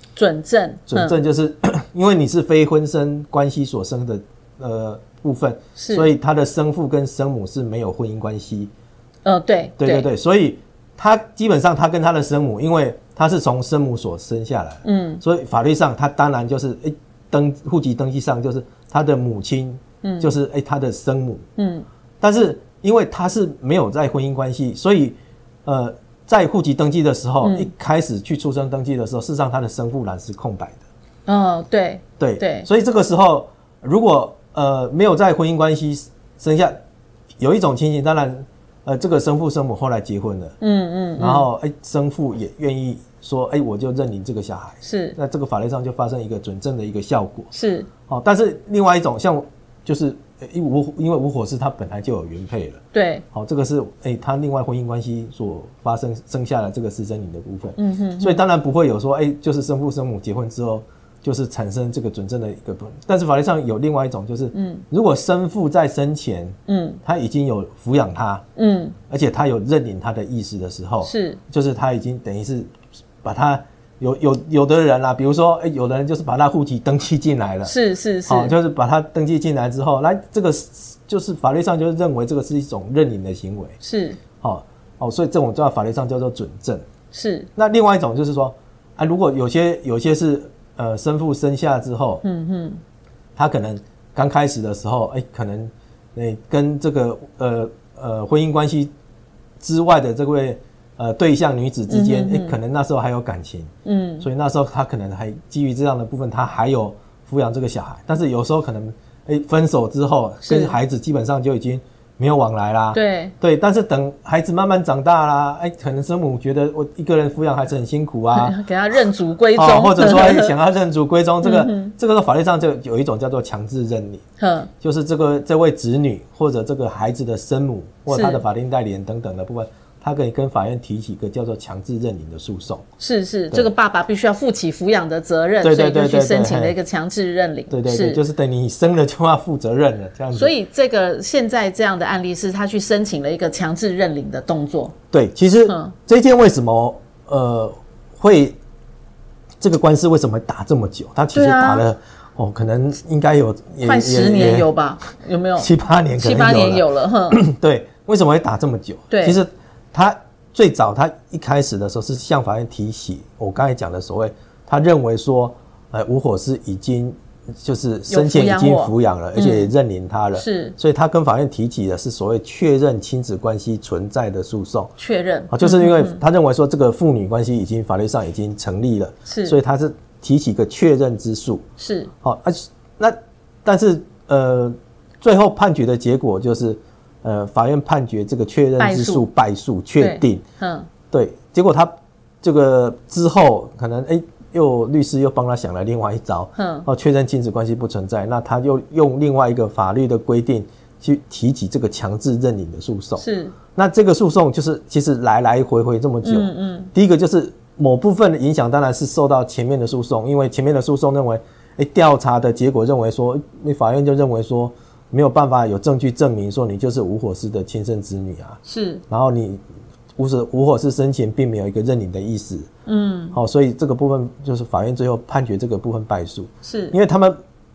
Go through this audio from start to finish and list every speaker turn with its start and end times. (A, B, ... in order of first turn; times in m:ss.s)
0:00.2-0:01.2 A
0:00.9-0:08.7 B
0:05.8-0:06.1 A
0:09.2-0:10.1 A
0:09.8-0:21.5 B
0:14.8-0:15.2 A
0:20.0-0:20.3 A
0:21.6-0:21.8 A
0:22.2-0:30.8 B
0:27.4-0:27.7 A
0:31.3-0:32.7 A
0:32.2-0:36.8 B
0:37.4-0:40.6 B
0:40.6-0:41.5 A
0:41.2-0:47.5 B
0:44.8-0:45.2 A
0:47.5-0:47.9 A
0:48.1-0:52.8 B
0:52.9-0:53.2 A
0:53.3-1:08.4 B
0:57.8-0:58.4 A
1:04.5-1:04.8 A
1:06.7-1:07.0 A
1:08.6-1:09.0 A
1:09.1-1:12.7 B
1:11.0-1:11.4 A
1:13.2-1:17.7 B
1:17.6-1:18.5 A
1:18.3-1:23.8 B
1:23.8-1:24.2 A
1:24.4-1:26.8 B
1:27.1-1:27.5 A
1:27.6-1:32.2 B
1:32.2-1:32.8 A
1:33.4-1:38.9 B
1:39.6-1:58.6 B
1:41.9-1:42.6 A
1:43.8-1:44.3 A
1:50.4-1:50.8 A
1:52.9-1:53.3 A
1:58.3-2:00.5 A
1:59.6-2:04.2 B
2:01.4-2:01.9 A
2:04.4-2:04.7 A
2:04.8-2:12.9 B
2:08.1-2:08.4 A
2:13.0-2:18.2 A
2:15.6-2:16.8 B
2:17.7-2:20.5 B
2:20.3-2:24.9 A
2:25.1-2:28.6 B
2:25.7-2:26.0 A
2:29.6-2:34.7 B
2:31.3-2:31.9 A
2:33.8-2:37.4 A
2:35.6-2:54.9 B
2:39.1-2:39.4 A
2:48.1-2:49.7 A
2:50.4-2:50.8 A
2:55.0-2:56.2 A
2:55.5-3:01.6 B
2:59.3-2:59.6 A
3:01.8-3:02.1 A
3:02.2-3:10.4 B
3:08.8-3:09.3 A
3:10.0-3:10.9 A
3:11.1-3:38.6 B
3:16.6-3:16.9 A
3:23.2-3:23.6 A
3:26.2-3:26.9 A
3:38.7-3:39.0 A
3:39.1-3:39.6 B
3:40.2-3:42.7 B
3:42.9-3:43.4 A
3:43.3-3:47.4 B
3:46.6-3:47.0 A